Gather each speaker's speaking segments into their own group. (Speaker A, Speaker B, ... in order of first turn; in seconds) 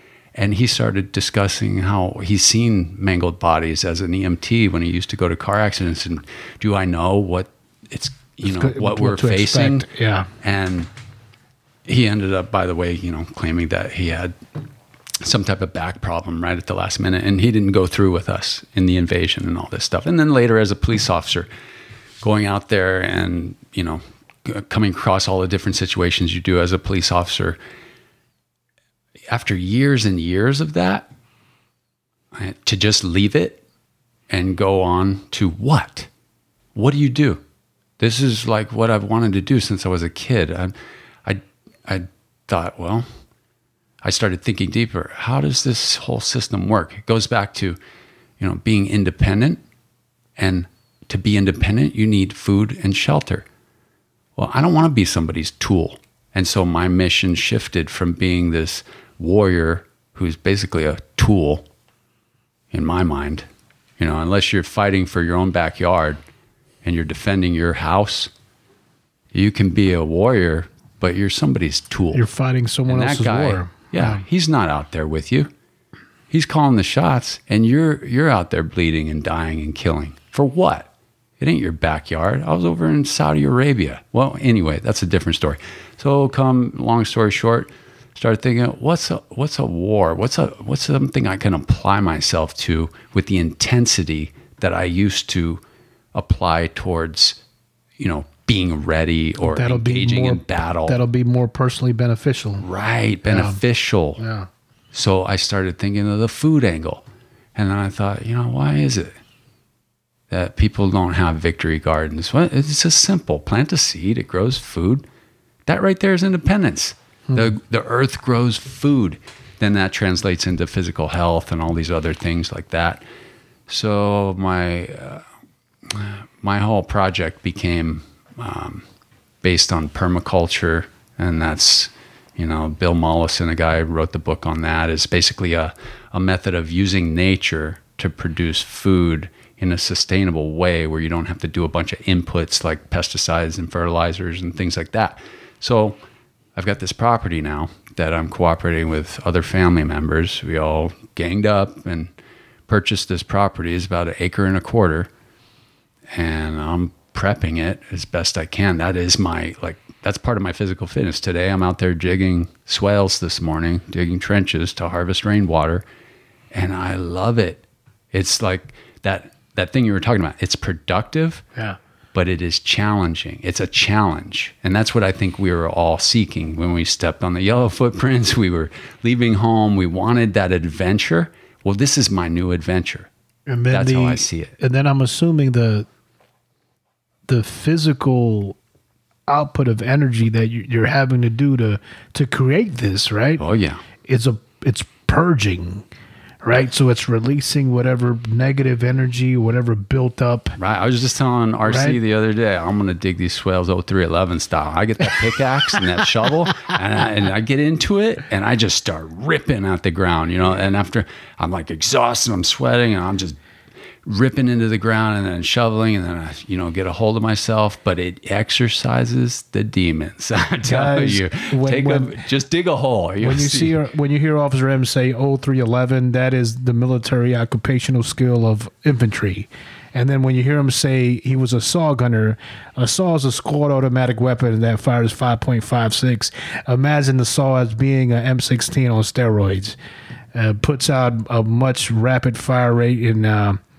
Speaker A: 0.3-9.9, 10.4-10.9, 11.8-14.3, 15.2-21.5, 22.2-27.6, 29.3-31.1, 32.3-33.6, 34.3-36.1, 36.7-37.4, 38.0-40.7, 41.2-43.0, 44.0-47.8, 48.4-49.6, 50.4-53.5, 54.4-61.6, 62.7-63.5, 64.0-66.2, 66.8-68.3, 69.3-72.2, 72.9-75.5, 76.3-80.9, 81.4-95.6, 96.1-97.4, 98.0-101.0, 102.6-104.2, 104.9-109.1, 110.3-115.0, 115.7-123.0, 123.7-125.2, 125.9-128.8, 129.4-146.0, 146.6-152.1, 152.7-155.1, 156.1-165.8, 166.5-171.4, 172.1-183.1, 183.7-184.5, 193.4-193.8, 200.6-213.4, 214.0-223.8
Speaker B: 8.4-10.3, 72.1-74.2, 99.5-102.7, 103.2-103.6, 104.2-104.5, 183.5-185.9, 187.3-188.6, 189.3-193.4, 194.0-195.8, 196.4-200.6, 201.7-202.0, 220.6-222.2, 223.2-239.8, 240.3-243.6